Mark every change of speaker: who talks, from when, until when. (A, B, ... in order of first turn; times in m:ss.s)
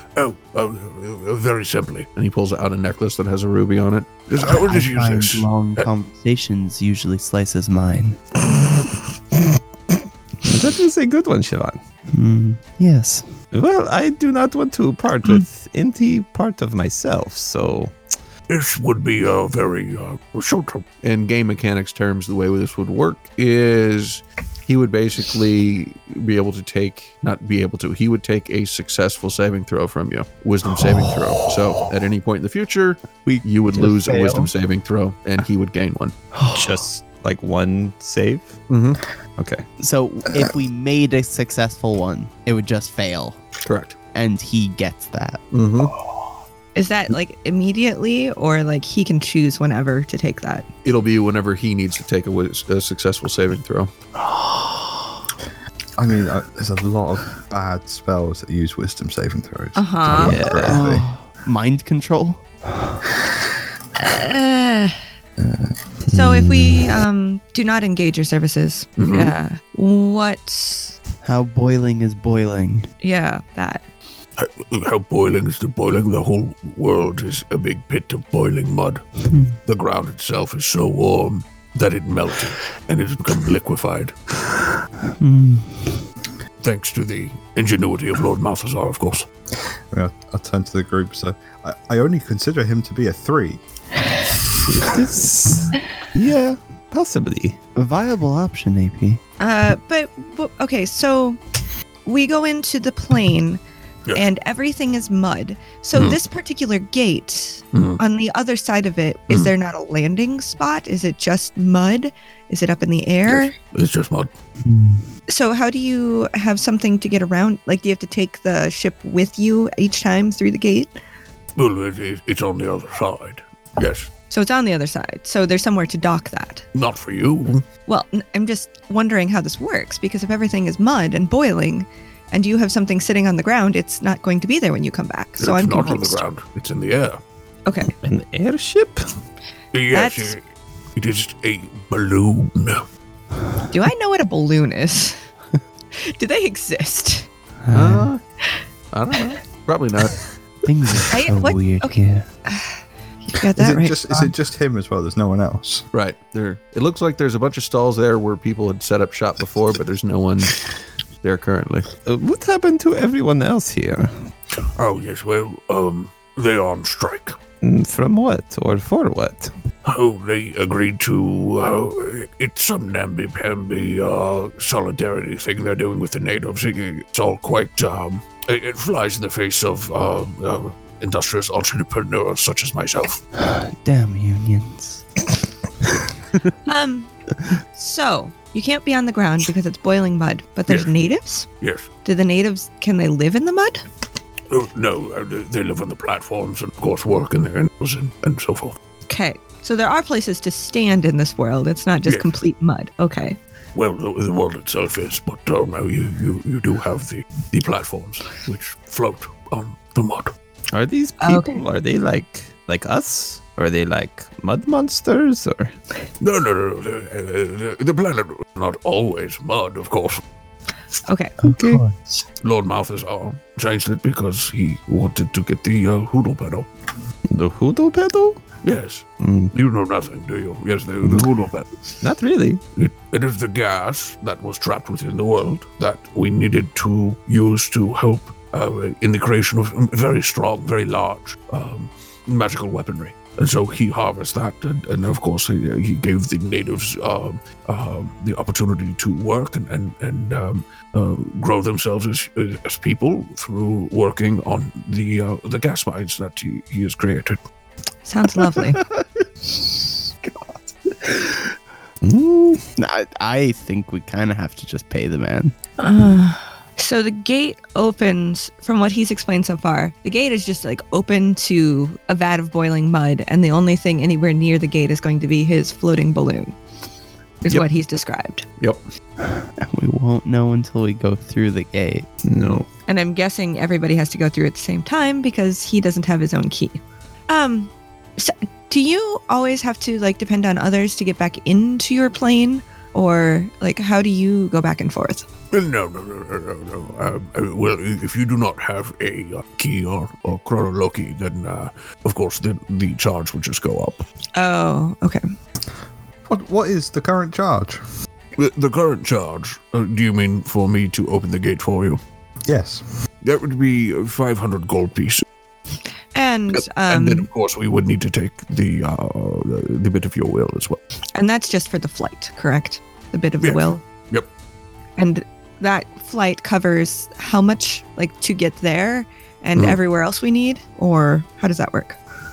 0:00.2-0:02.1 A
0:02.2-0:04.2 B
0:04.3-0:05.9 A
0:04.4-0:08.2 C
0:10.4-0:11.8 D
0:12.1-0:13.3 C
0:13.5-0:17.9 D
0:18.5-0:20.9 A
0:21.0-0:36.2 B
0:33.2-0:34.5 C
0:36.3-0:36.8 C
0:36.5-0:38.6 D
0:38.7-0:39.0 B
0:39.4-0:39.6 D
0:39.8-0:43.5 C
0:43.6-0:44.0 B
0:44.1-0:45.4 C
0:45.5-0:45.9 B
0:46.8-0:50.7 E
0:50.8-0:53.9 B
0:56.0-1:01.1 F
0:59.8-1:00.4 E
1:00.3-1:00.8 D
1:00.6-1:02.9 C
1:04.0-1:05.0 E
1:05.4-1:05.7 F
1:06.1-1:11.0 E
1:06.1-1:06.8 D
1:09.0-1:09.3 A
1:11.2-1:12.9 C
1:13.0-1:13.8 E
1:14.4-1:19.1 A
1:19.3-1:19.6 C
1:19.7-1:24.2 A
1:25.2-1:26.0 C
1:26.6-1:29.3 A
1:29.9-1:33.6 F
1:34.8-1:37.6 D
1:37.8-1:39.2 C
1:39.4-1:41.4 E
1:42.0-1:43.6 E
1:44.1-1:53.5 E
1:47.7-1:48.0 A
1:53.3-1:54.3 A
1:54.6-1:55.1 C
1:55.3-2:00.9 E
2:01.6-2:04.1 A
2:04.3-2:06.6 E
2:06.7-2:07.6 A
2:07.9-2:16.2 E
2:15.4-2:17.2 A
2:17.7-2:17.9 E
2:18.0-2:19.1 D
2:19.7-2:20.4 A
2:19.9-2:20.4 E
2:21.0-2:22.9 A
2:23.7-2:25.2 E
2:26.0-2:27.3 E
2:27.7-2:28.1 C
2:27.7-2:28.2 B
2:28.9-2:30.2 B
2:30.6-2:32.3 C
2:31.1-2:34.3 E
2:33.6-2:35.8 F
2:35.9-2:40.6 B
2:41.2-2:41.9 B
2:42.0-2:44.3 D
2:44.8-2:47.4 A
2:47.6-2:49.5 D
2:49.8-3:03.2 A
3:03.4-3:05.0 C
3:06.7-3:07.1 E
3:07.8-3:11.5 E
3:11.6-3:11.9 A
3:12.0-3:13.8 E
3:14.5-3:18.8 A
3:19.1-3:23.4 E
3:22.1-3:22.3 A
3:23.8-3:30.3 A
3:30.7-3:35.8 D
3:31.2-3:31.6 E
3:36.2-3:40.2 A
3:41.1-3:41.8 E
3:42.4-3:46.7 A
3:47.3-3:48.4 D
3:48.6-3:51.8 A
3:49.2-3:49.5 D
3:52.0-3:52.6 D
3:52.8-4:17.4 A
4:18.0-4:18.8 E
4:22.0-4:22.7 D
4:22.8-4:25.5 C
4:25.8-4:36.6 E
4:37.4-4:38.4 E
4:39.4-4:42.1 C
4:42.2-4:42.7 D
4:42.9-4:55.2 E
4:55.5-5:04.0 A
5:04.4-5:05.2 E
5:06.3-5:07.8 F
5:08.4-5:12.0 A
5:12.5-5:12.8 F
5:13.2-5:15.2 A
5:16.1-5:17.3 E
5:16.6-5:20.8 A
5:21.2-5:23.8 E
5:23.4-5:24.3 A
5:25.0-5:32.0 E